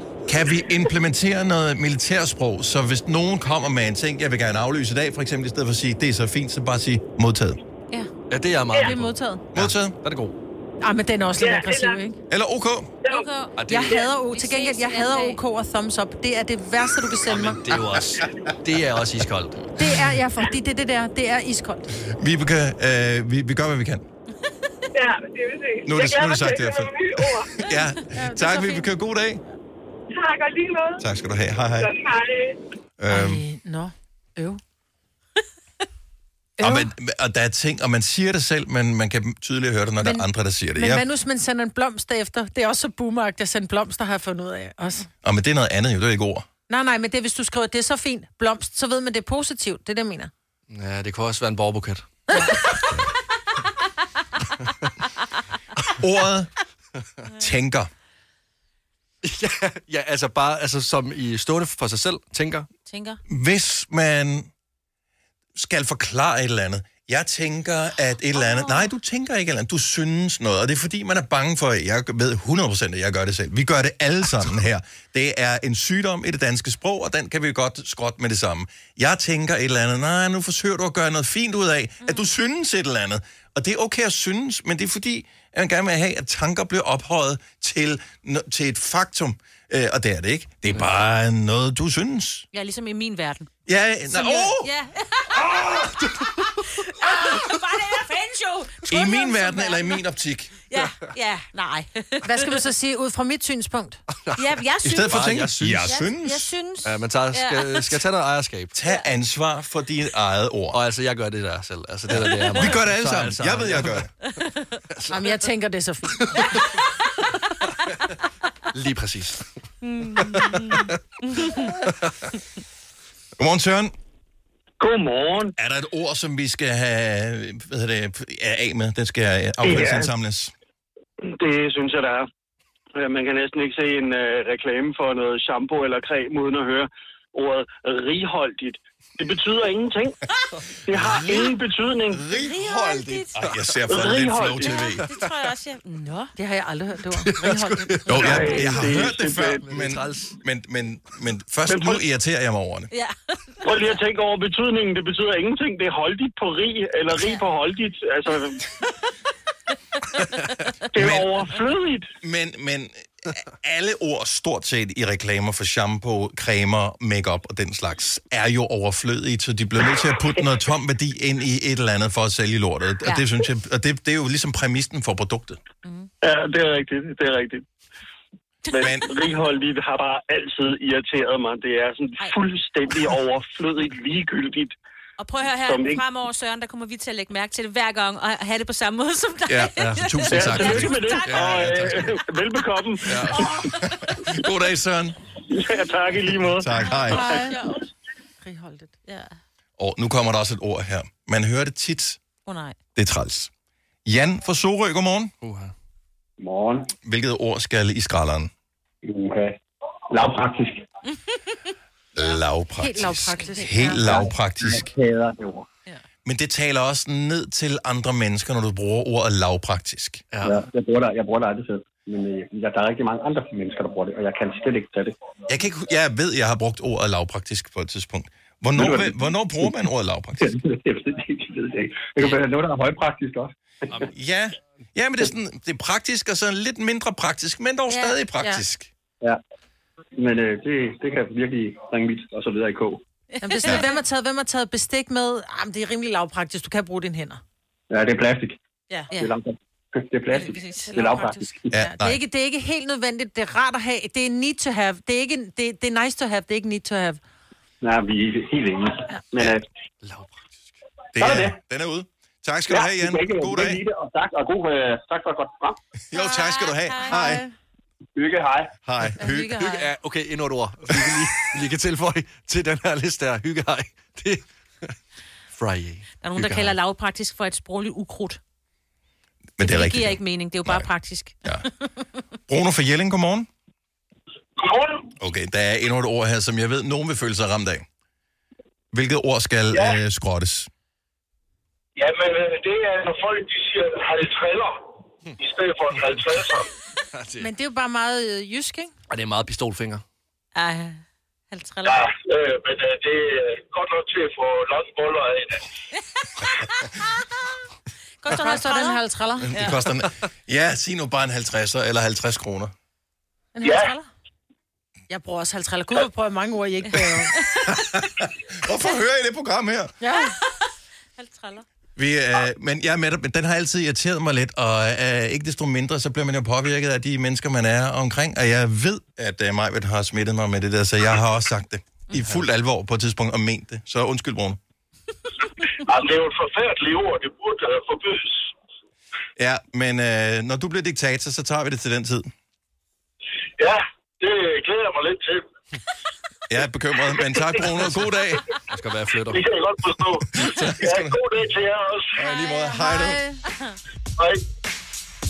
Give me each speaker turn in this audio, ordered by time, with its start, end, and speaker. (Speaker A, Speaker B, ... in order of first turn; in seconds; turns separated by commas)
Speaker A: 0.3-7.6, Speaker B: 8.3-10.3, Speaker C: 8.7-9.4, Speaker A: 9.5-10.0, Speaker C: 10.8-12.2, Speaker D: 11.4-12.0, Speaker A: 12.3-12.9, Speaker E: 13.1-15.4, Speaker B: 13.6-14.0, Speaker C: 13.7-17.6, Speaker B: 17.3-19.6, Speaker C: 19.8-21.9, Speaker A: 22.1-24.1, Speaker D: 24.9-27.7, Speaker A: 25.9-29.4, Speaker C: 28.1-28.9, Speaker D: 30.1-31.0, Speaker A: 31.0-31.9, Speaker D: 31.8-32.6, Speaker A: 33.0-33.4, Speaker C: 33.1-34.6, Speaker A: 36.6-41.0, Speaker C: 36.6-36.9, Speaker C: 40.0-45.1, Speaker A: 45.2-46.5, Speaker C: 46.7-50.3, Speaker B: 50.7-52.1, Speaker A: 56.0-56.5, Speaker A: 57.4-57.9, Speaker B: 59.2-62.7, Speaker E: 62.9-63.2, Speaker A: 63.3-64.5, Speaker A: 65.5-92.5, Speaker E: 68.4-68.8, Speaker E: 82.0-82.3, Speaker E: 92.5-93.5, Speaker A: 93.7-94.7, Speaker E: 94.1-95.8, Speaker E: 96.4-100.0, Speaker A: 98.9-100.5, Speaker E: 100.7-102.6, Speaker C: 102.2-104.0, Speaker B: 104.3-106.0, Speaker E: 104.4-108.0, Speaker A: 104.8-106.6, Speaker B: 106.8-108.7, Speaker A: 108.7-110.8, Speaker B: 110.7-114.1, Speaker A: 112.1-114.1, Speaker B: 114.9-115.4, Speaker C: 115.1-116.2, Speaker B: 116.2-116.6, Speaker B: 118.7-119.5, Speaker E: 119.8-121.8, Speaker B: 120.1-120.9, Speaker A: 123.4-123.9, Speaker F: 124.8-125.5, Speaker A: 125.6-130.5, Speaker F: 129.6-130.1, Speaker F: 131.2-132.3, Speaker F: 133.0-140.2, Speaker F: 140.9-142.2, Speaker A: 140.9-141.6, Speaker A: 142.1-145.1, Speaker E: 142.3-143.4, Speaker F: 143.9-144.8, Speaker E: 144.5-146.3, Speaker C: 146.3-148.1, Speaker B: 147.2-150.3, Speaker A: 148.1-152.9, Speaker F: 148.2-149.6, Speaker F: 151.7-152.0, Speaker E: 152.9-153.8, Speaker F: 153.6-158.6, Speaker E: 157.1-157.4, Speaker F: 160.9-162.1, Speaker A: 160.9-161.3, Speaker A: 162.2-175.6, Speaker F: 176.2-177.7, Speaker F: 178.7-184.7, Speaker A: 178.8-179.1, Speaker E: 185.2-191.5, Speaker F: 185.6-186.0, Speaker A: 189.5-192.2, Speaker B: 189.8-190.4, Speaker F: 190.3-193.1, Speaker B: 193.1-193.4, Speaker A: 193.1-195.2, Speaker E: 193.4-193.7, Speaker F: 195.5-197.4, Speaker A: 196.4-197.3, Speaker E: 197.0-197.7, Speaker C: 197.1-197.7, Speaker C: 198.4-198.9, Speaker E: 199.1-199.3, Speaker A: 199.8-202.2, Speaker E: 202.5-202.8, Speaker A: 202.9-203.5, Speaker A: 204.1-205.3, Speaker B: 205.4-205.7, Speaker G: 206.4-206.9, Speaker A: 207.0-208.5, Speaker G: 209.0-209.6, Speaker G: 210.1-210.9, Speaker A: 212.2-214.9, Speaker C: 212.8-214.2, Speaker G: 214.1-215.7, Speaker A: 216.2-220.2, Speaker B: 220.3-220.6, Speaker G: 220.4-225.2, Speaker A: 225.5-230.5, Speaker G: 228.8-229.8, Speaker G: 230.4-233.5, Speaker A: 234.1-238.9, Speaker G: 240.2-243.0, Speaker E: 243.3-244.0, Speaker C: 243.4-247.4, Speaker G: 247.9-248.6, Speaker G: 249.2-251.8, Speaker E: 250.3-251.4, Speaker C: 250.5-257.2, Speaker A: 251.7-252.2, Speaker G: 257.8-259.6, Speaker B: 260.0-260.4, Speaker A: 261.1-263.8, Speaker G: 261.2-261.6, Speaker G: 262.7-265.8, Speaker A: 266.1-267.4, Speaker E: 266.1-267.4, Speaker C: 267.1-267.5, Speaker G: 268.2-268.8, Speaker A: 268.8-269.6, Speaker E: 269.2-269.9, Speaker B: 269.6-274.9, Speaker B: 275.5-276.8, Speaker E: 276.2-278.4, Speaker A: 279.6-280.9, Speaker E: 279.6-281.5, Speaker A: 282.5-283.5, Speaker H: 284.6-285.1, Speaker A: 285.2-287.9, Speaker A: 288.9-290.7, Speaker H: 289.7-290.0, Speaker H: 292.0-294.9, Speaker H: 295.4-296.7, Speaker B: 297.1-297.5, Speaker C: 297.4-298.9, Speaker B: 299.1-300.0, Speaker E: 300.6-302.1, Speaker H: 301.9-305.7, Speaker E: 308.2-309.8, Speaker C: 308.3-309.6, Speaker A: 309.4-312.7, Speaker C: 313.6-314.1, Speaker H: 313.6-313.9, Speaker C: 315.1-317.4, Speaker E: 317.3-317.7, Speaker A: 317.6-319.9, Speaker C: 320.0-320.4, Speaker E: 320.2-320.7, Speaker E: 321.2-321.6, Speaker A: 322.0-334.6, Speaker H: 335.9-338.5, Speaker A: 339.4-342.3, Speaker H: 343.6-345.5, Speaker A: 346.5-348.5, Speaker B: 348.7-349.4, Speaker H: 349.3-352.1, Speaker A: 350.3-351.2, Speaker A: 352.2-353.2, Speaker E: 352.3-353.1, Speaker C: 352.3-353.4